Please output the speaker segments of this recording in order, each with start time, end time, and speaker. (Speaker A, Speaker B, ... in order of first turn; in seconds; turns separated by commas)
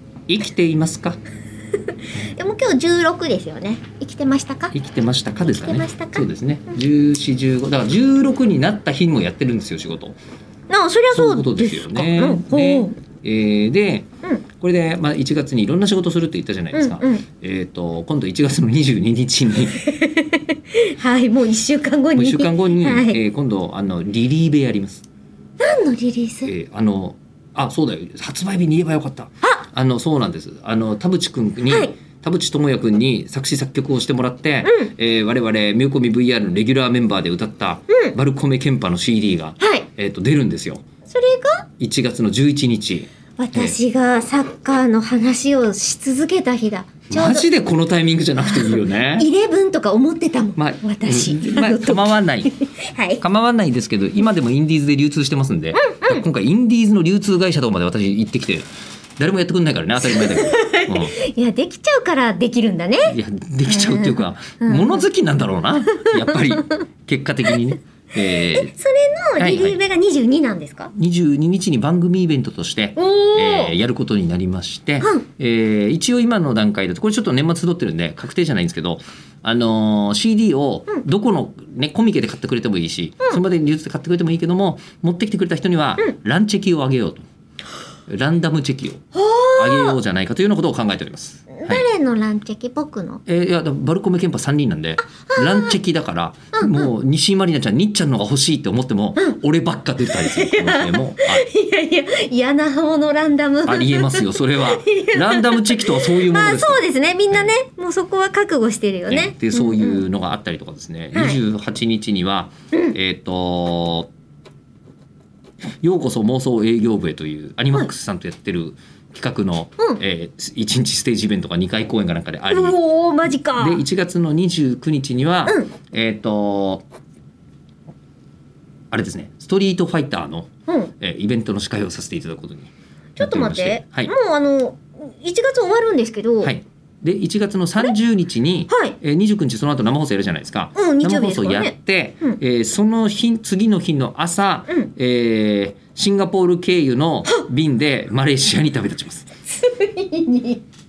Speaker A: 0.3-1.2, Speaker B: 2.2-4.7, Speaker A: 4.7-10.2, Speaker B: 5.4-6.3, Speaker B: 10.7-12.9, Speaker A: 11.1-19.8, Speaker B: 16.7-17.2, Speaker B: 19.7-23.2, Speaker A: 22.1-25.0, Speaker B: 25.6-26.5, Speaker A: 26.4-40.8, Speaker B: 31.7-31.9, Speaker B: 34.6-34.9, Speaker B: 39.6-39.9, Speaker B: 41.1-41.6, Speaker A: 41.8-43.8, Speaker B: 43.4-47.5, Speaker A: 47.1-49.3, Speaker B: 48.5-53.2, Speaker A: 50.5-52.5, Speaker A: 53.2-58.7, Speaker B: 55.8-56.2, Speaker A: 59.2-61.2, Speaker B: 60.0-63.1, Speaker A: 63.0-68.7, Speaker B: 63.7-65.0, Speaker B: 66.0-66.6, Speaker B: 68.4-70.9, Speaker A: 69.4-69.8, Speaker A: 71.0-87.2, Speaker B: 73.0-73.7, Speaker A: 88.1-89.0, Speaker B: 89.1-90.0, Speaker A: 89.5-91.9, Speaker B: 91.6-93.2, Speaker A: 93.2-101.5, Speaker B: 95.3-95.7, Speaker B: 96.5-96.9, Speaker B: 100.1-110.0, Speaker A: 103.7-107.5, Speaker A: 109.1-114.1, Speaker B: 111.1-111.4, Speaker A: 115.8-122.8, Speaker B: 122.5-123.8, Speaker A: 123.5-126.8, Speaker B: 125.4-125.7, Speaker A: 128.9-134.1, Speaker B: 130.7-130.9, Speaker B: 133.2-136.5, Speaker A: 136.4-149.3, Speaker B: 138.7-138.9, Speaker B: 140.7-142.4, Speaker B: 149.6-150.6